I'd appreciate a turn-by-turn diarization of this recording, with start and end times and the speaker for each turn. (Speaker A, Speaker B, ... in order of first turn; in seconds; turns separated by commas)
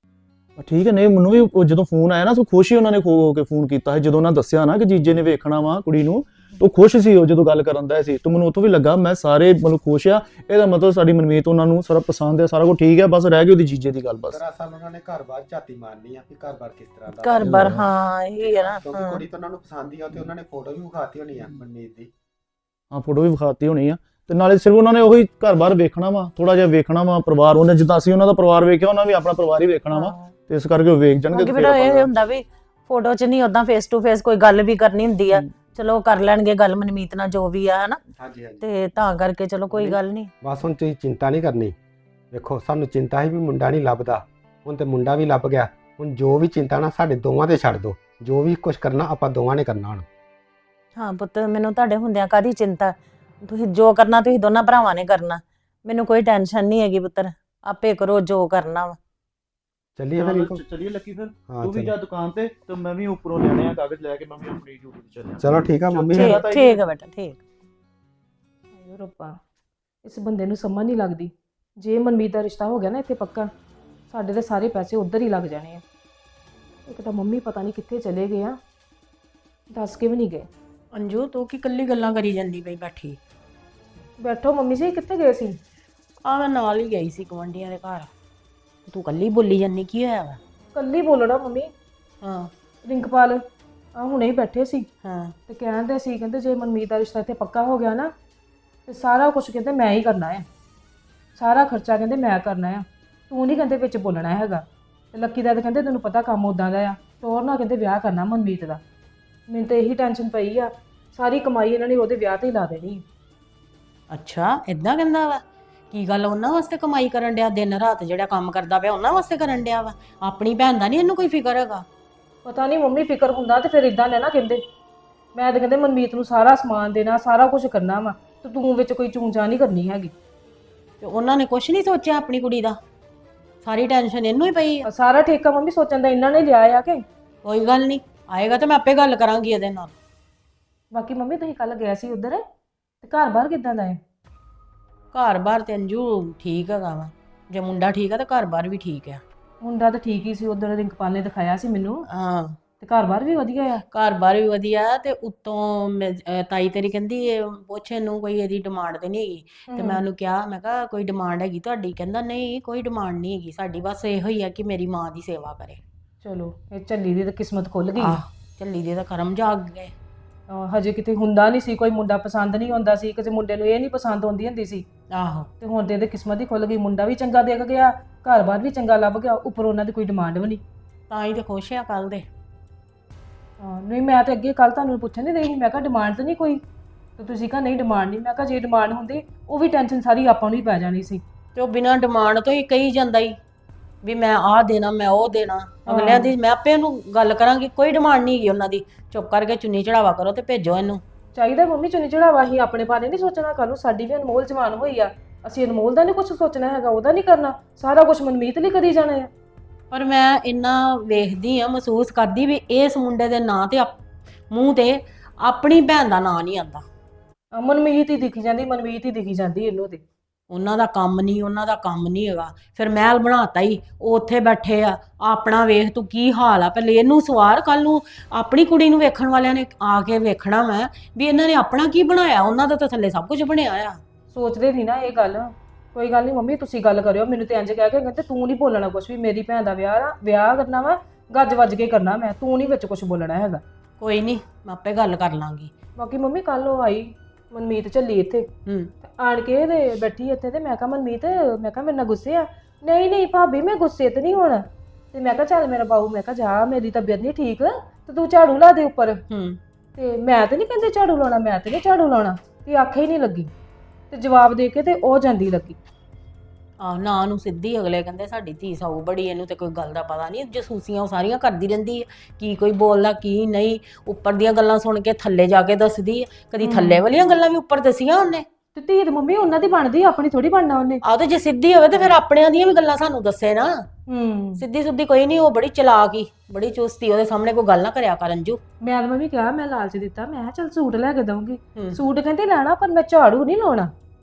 Speaker A: 0.6-14.4, Speaker B: 14.3-17.7, Speaker C: 17.1-19.2, Speaker A: 17.4-17.9, Speaker B: 18.4-22.1, Speaker A: 22.9-32.1, Speaker C: 29.9-30.3, Speaker C: 31.3-38.0, Speaker B: 38.2-38.7, Speaker C: 38.6-40.3, Speaker B: 39.7-41.8, Speaker B: 42.3-50.1, Speaker C: 51.0-59.0, Speaker B: 60.0-60.6, Speaker A: 60.1-66.8, Speaker B: 61.5-61.9, Speaker B: 65.4-66.4, Speaker C: 66.1-67.4, Speaker D: 68.8-69.4, Speaker D: 70.0-73.5, Speaker D: 74.1-75.8, Speaker D: 76.9-78.6, Speaker D: 79.7-80.5, Speaker E: 80.9-83.2, Speaker D: 84.2-85.6, Speaker E: 86.2-88.1, Speaker E: 88.9-90.4, Speaker D: 90.7-91.7, Speaker E: 92.2-92.5, Speaker D: 92.9-93.4, Speaker D: 94.0-94.9, Speaker E: 95.0-95.3, Speaker D: 95.5-98.1, Speaker D: 98.9-100.5, Speaker D: 101.4-108.8, Speaker D: 109.5-113.0, Speaker E: 114.1-121.9, Speaker D: 122.4-124.6, Speaker D: 125.3-130.1, Speaker E: 131.0-132.8, Speaker E: 133.6-134.9, Speaker D: 134.9-137.0, Speaker E: 137.4-139.9, Speaker D: 140.9-142.4, Speaker D: 143.0-144.0, Speaker E: 145.1-149.2, Speaker D: 149.6-152.1, Speaker E: 152.1-152.6, Speaker D: 152.8-153.8, Speaker E: 153.9-165.8, Speaker D: 159.7-160.0, Speaker D: 166.2-168.2, Speaker E: 168.0-169.9, Speaker D: 170.5-174.8, Speaker E: 175.1-175.5, Speaker D: 175.6-180.6, Speaker E: 181.1-182.3, Speaker D: 183.6-186.6, Speaker D: 187.2-191.2, Speaker E: 191.6-193.4, Speaker E: 194.0-201.0, Speaker D: 195.9-196.3, Speaker D: 201.3-209.3, Speaker E: 209.9-214.0, Speaker E: 214.5-216.8, Speaker D: 217.5-220.0, Speaker E: 220.5-234.0, Speaker D: 234.3-243.6, Speaker E: 244.0-245.7, Speaker D: 246.0-248.5, Speaker D: 249.1-259.2, Speaker E: 259.3-259.6, Speaker D: 260.0-263.5, Speaker D: 264.1-265.8, Speaker E: 266.8-278.5, Speaker D: 276.6-277.0, Speaker D: 278.8-281.0, Speaker E: 281.0-283.9, Speaker D: 284.1-284.6, Speaker E: 284.6-288.6, Speaker D: 288.8-293.9